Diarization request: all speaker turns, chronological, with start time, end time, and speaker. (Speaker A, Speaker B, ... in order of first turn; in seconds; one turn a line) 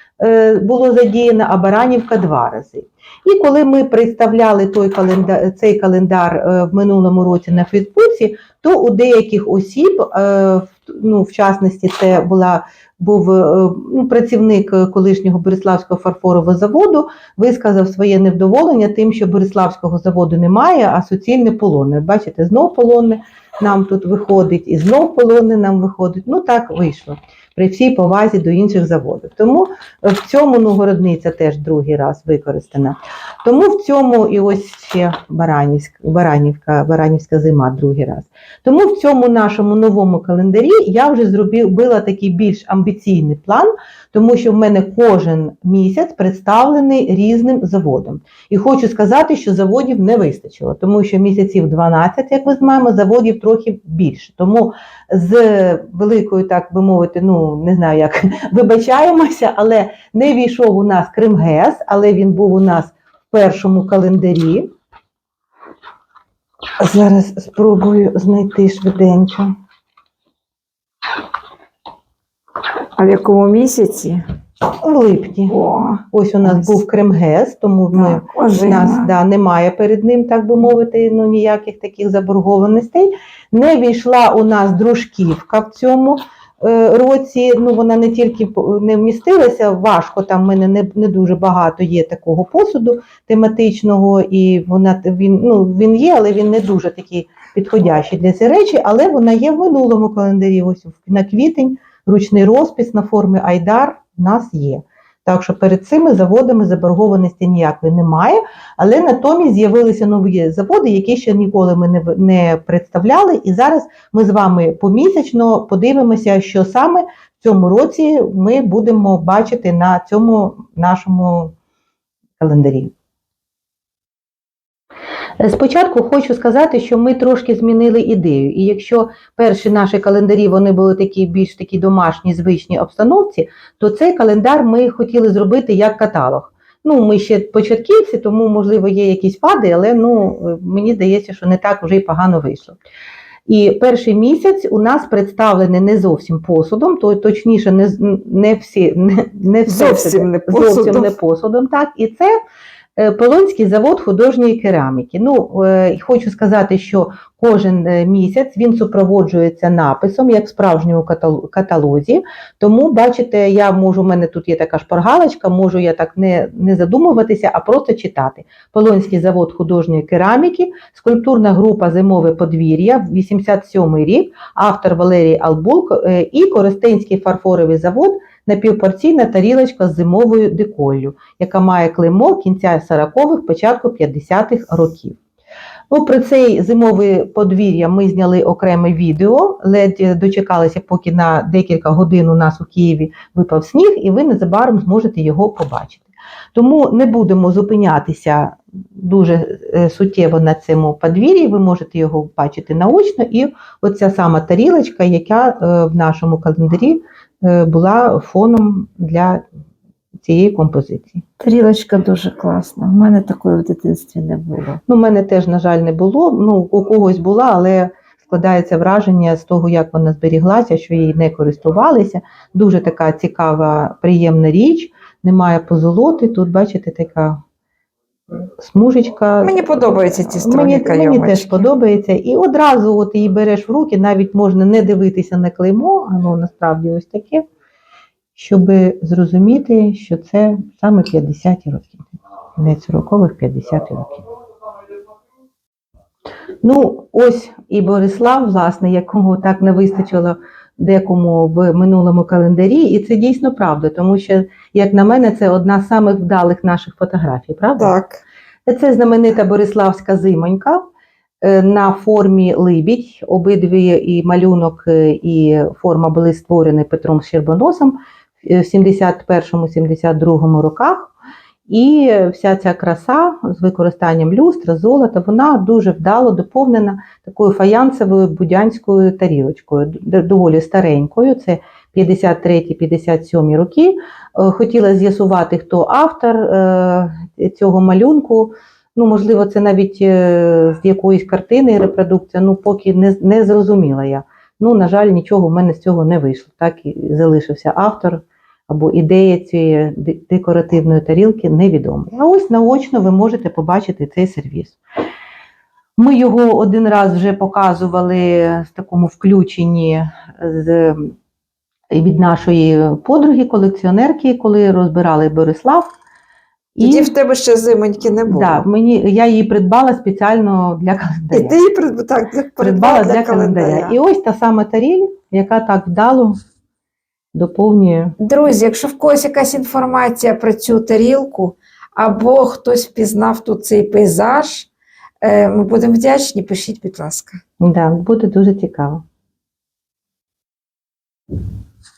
Speaker A: 0.2-64.7
Speaker A: 66.8-69.5
Speaker B: 73.0-74.2
Speaker A: 74.8-75.6
Speaker B: 75.5-76.7
Speaker A: 76.1-121.5
Speaker B: 77.9-79.1
Speaker A: 122.4-122.9
Speaker A: 125.4-142.8
Speaker A: 143.5-152.3
Speaker B: 149.7-151.1
Speaker A: 153.0-185.2
Speaker A: 185.9-209.4
Speaker A: 210.2-211.2
Speaker B: 211.4-214.8
Speaker A: 214.9-227.4
Speaker A: 228.6-237.4
Speaker B: 229.4-231.7
Speaker A: 238.4-244.2
Speaker A: 246.6-257.9
Speaker B: 257.8-258.2
Speaker A: 258.7-260.8
Speaker A: 261.4-271.1
Speaker A: 271.7-304.8
Speaker A: 306.0-311.1
Speaker A: 311.9-315.9
Speaker A: 316.8-317.1
Speaker B: 316.8-318.6
Speaker A: 318.3-321.6
Speaker B: 321.3-324.0
Speaker A: 322.6-326.4
Speaker A: 327.3-328.2
Speaker B: 328.2-334.7
Speaker B: 335.2-337.4
Speaker A: 337.6-339.0